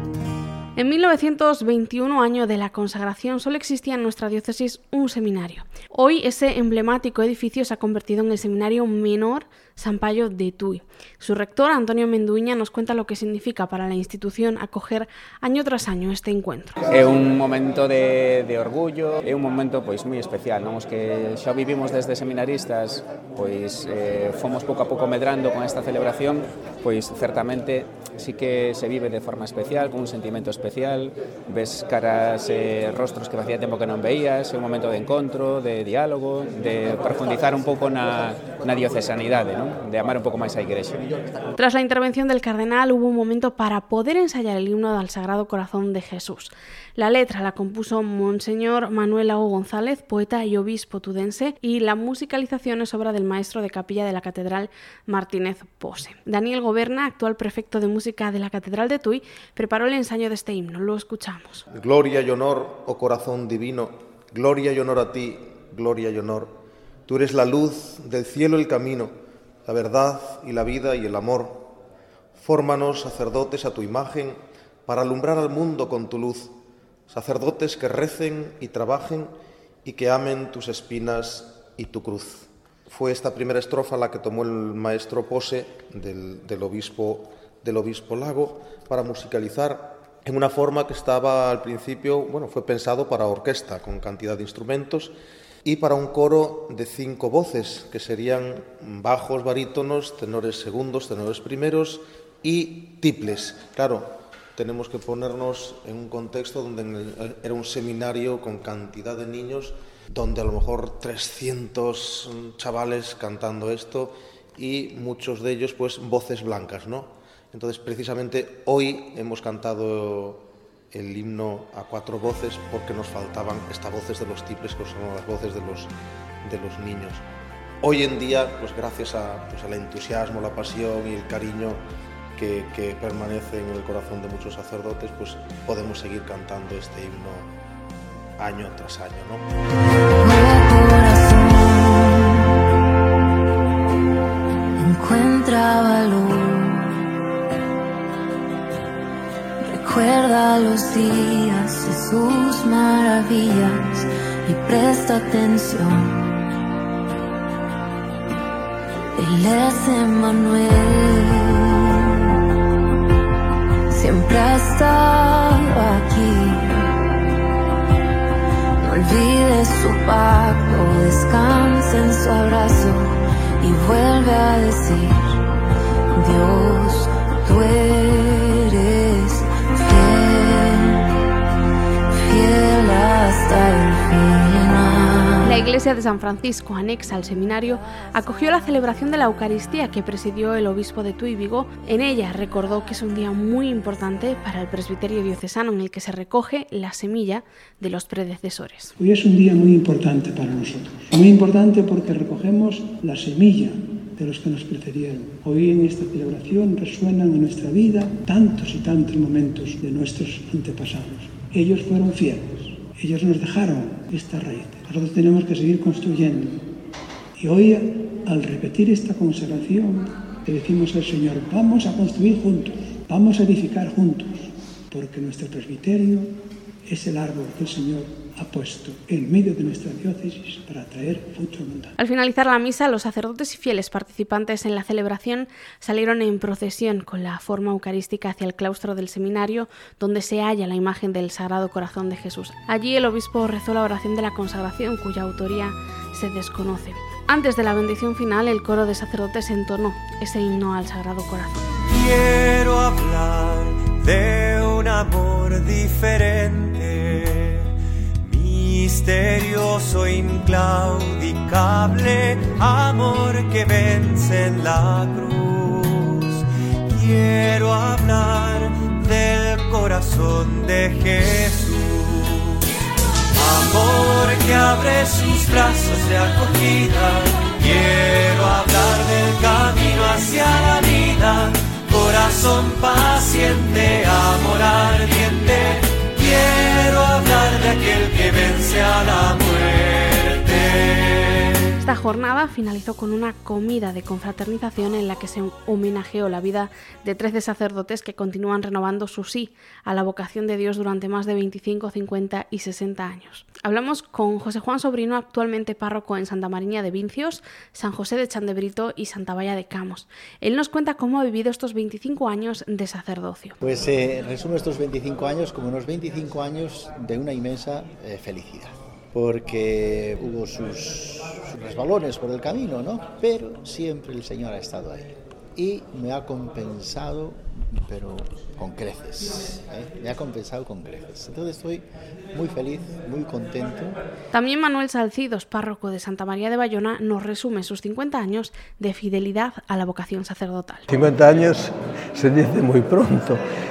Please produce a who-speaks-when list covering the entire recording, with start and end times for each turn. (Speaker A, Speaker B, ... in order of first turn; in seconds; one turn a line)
Speaker A: 0.8-16.8
Speaker B: 16.9-41.0
Speaker A: 41.6-61.6
Speaker C: 61.7-66.5
Speaker C: 67.1-69.1
Speaker C: 69.6-71.7
Speaker C: 72.3-76.5
Speaker C: 77.1-79.3
Speaker C: 79.8-95.1
Speaker C: 95.6-125.9
Speaker C: 126.4-127.2
Speaker C: 127.8-131.8
Speaker C: 132.3-137.5
Speaker C: 138.4-139.4
Speaker D: 140.2-142.4
Speaker D: 144.8-147.0
Speaker D: 149.6-156.3
Speaker D: 159.1-162.1
Speaker D: 163.9-166.9
Speaker D: 168.8-175.4
Speaker D: 176.1-181.0
Speaker D: 182.1-185.5
Speaker A: 185.4-198.9
Speaker E: 199.0-216.6
Speaker E: 217.4-226.3
Speaker E: 226.8-231.9
Speaker A: 232.0-251.6
Speaker F: 251.9-257.7
Speaker F: 258.2-272.7
Speaker F: 273.3-291.4
Speaker A: 291.8-313.6
Speaker G: 313.6-334.0
Speaker A: 334.3-340.9
Speaker H: 340.9-343.4